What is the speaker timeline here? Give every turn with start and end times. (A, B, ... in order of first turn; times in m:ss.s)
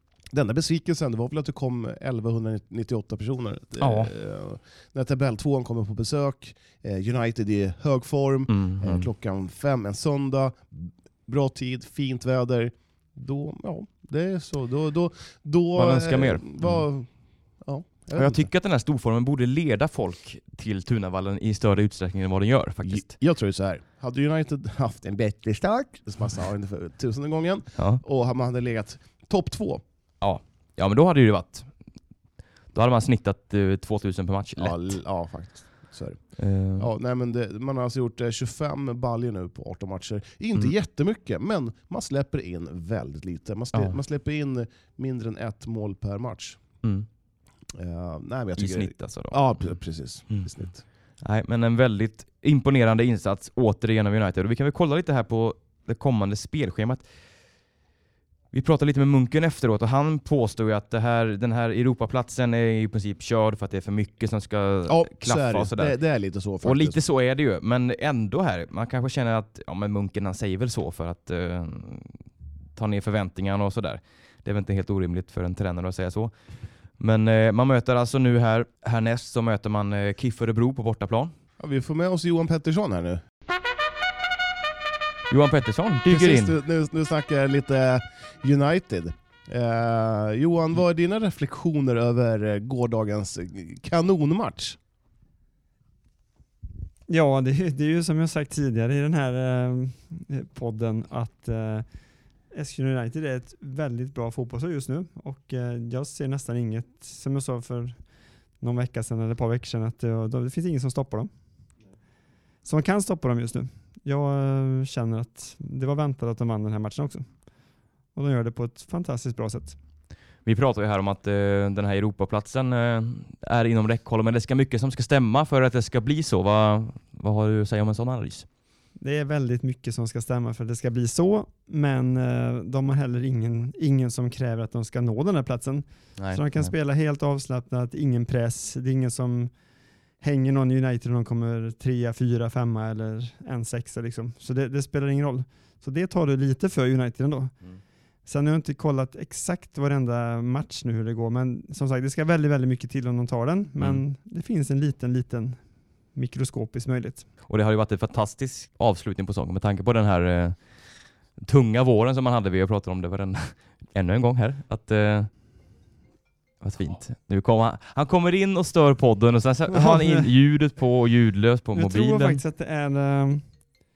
0:00.3-0:17.1 A
0:03.8-0:04.1 B
0:08.5-0:09.1 B
0:15.8-0:16.8 B
0:17.6-0:18.5 A
0:18.1-0:23.2 B
0:22.8-0:29.8 A
0:27.8-0:28.0 B
0:30.2-0:31.7 B
0:32.7-0:35.0 B
0:34.6-0:46.6 A
0:36.4-0:36.9 B
0:47.7-0:50.8 A
0:48.6-0:50.6 B
0:51.2-0:57.0 B
0:58.5-1:05.9 B
1:04.9-1:07.0 A
1:06.6-1:12.2 B
1:12.7-1:16.3 B
1:17.0-1:21.3 B
1:21.6-1:23.2 A
1:25.3-1:26.6 B
1:26.0-1:34.8 A
1:37.1-1:41.9 C
1:42.5-1:48.0 C
1:48.6-1:51.3 C
1:52.6-1:57.4 C
1:58.1-1:59.8 C
2:00.4-2:08.5 B
2:09.0-2:19.5 C
2:16.2-2:16.7 B
2:20.2-2:27.5 C
2:28.2-2:37.3 C
2:37.5-2:40.8 B
2:41.4-2:45.3 B
2:46.6-2:52.4 B
2:49.7-2:50.2 C
2:51.7-2:53.6 C